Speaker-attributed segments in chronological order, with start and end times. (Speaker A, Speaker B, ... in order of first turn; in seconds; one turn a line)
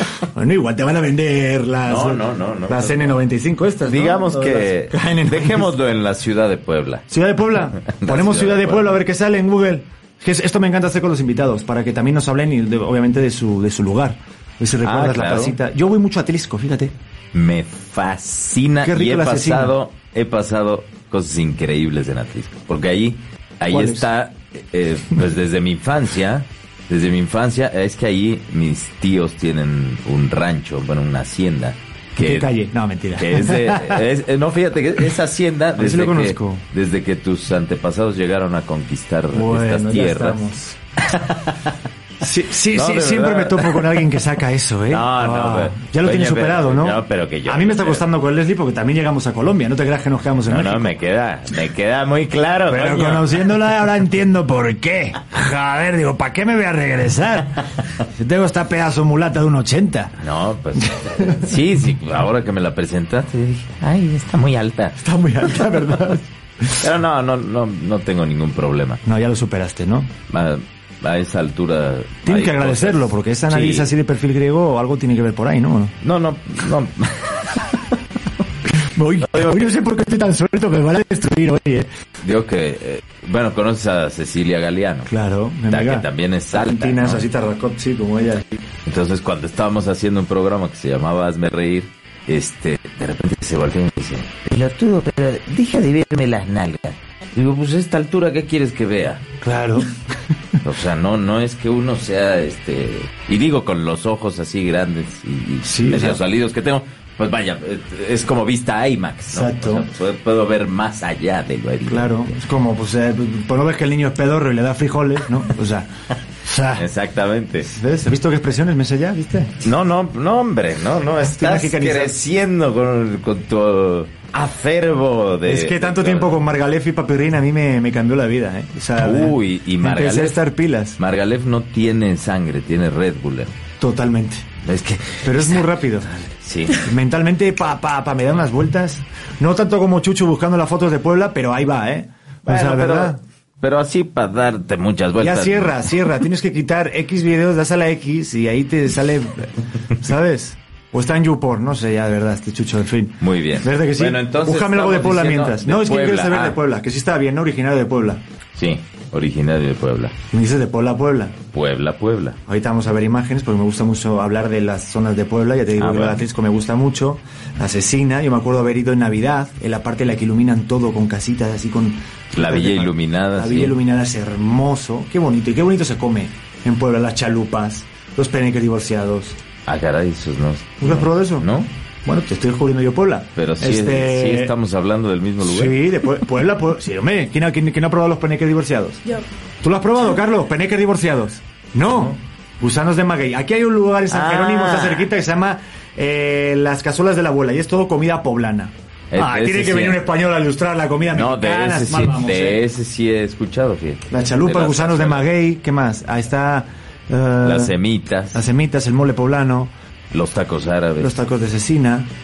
Speaker A: 0.3-5.7
Speaker B: 1.8-3.2
Speaker B: 3.8-7.1
Speaker A: 7.1-16.9
Speaker B: 7.8-9.0
Speaker B: 14.8-15.6
Speaker B: 17.3-32.5
Speaker A: 18.8-19.7
Speaker A: 23.7-24.1
Speaker A: 32.1-34.0
Speaker B: 33.1-40.4
Speaker A: 35.8-36.6
Speaker A: 39.3-40.8
Speaker B: 41.0-41.8
Speaker A: 42.2-50.9
Speaker B: 42.7-44.3
Speaker B: 44.9-48.0
Speaker B: 50.5-53.6
Speaker A: 52.7-60.2
Speaker B: 60.2-65.0
Speaker A: 60.8-61.5
Speaker A: 65.0-66.8
Speaker B: 65.6-65.9
Speaker B: 66.8-69.0
Speaker A: 69.0-70.1
Speaker B: 70.3-73.9
Speaker A: 72.2-75.9
Speaker B: 76.0-77.9
Speaker A: 78.8-81.9
Speaker B: 79.2-79.7
Speaker B: 82.2-85.1
Speaker A: 85.1-88.6
Speaker B: 85.7-87.2
Speaker B: 88.8-99.2
Speaker A: 99.4-99.9
Speaker B: 100.6-112.3
Speaker A: 105.6-106.2
Speaker A: 109.3-109.9
Speaker A: 111.9-115.9
Speaker A: 116.4-116.9
Speaker B: 116.7-117.7
Speaker A: 117.6-119.6
Speaker B: 119.6-126.4
Speaker A: 121.2-122.2
Speaker A: 125.4-131.0
Speaker B: 129.0-130.4
Speaker B: 131.0-133.5
Speaker A: 133.8-134.5
Speaker B: 134.6-136.8
Speaker A: 135.2-136.1
Speaker A: 136.8-143.2
Speaker B: 142.4-145.8
Speaker A: 145.2-158.2
Speaker B: 153.2-156.6
Speaker B: 158.6-160.2
Speaker A: 160.3-161.4
Speaker B: 161.5-162.4
Speaker A: 162.5-179.4
Speaker B: 165.8-166.2
Speaker B: 172.3-173.8
Speaker B: 179.7-181.7
Speaker A: 180.8-181.5
Speaker A: 182.0-184.5
Speaker B: 183.3-185.8
Speaker A: 185.4-189.0
Speaker A: 189.6-202.6
Speaker B: 194.1-195.1
Speaker B: 199.1-200.0
Speaker B: 201.1-205.3
Speaker A: 204.1-207.8
Speaker B: 207.4-208.4
Speaker A: 208.3-209.7
Speaker B: 210.1-211.2
Speaker A: 211.0-212.1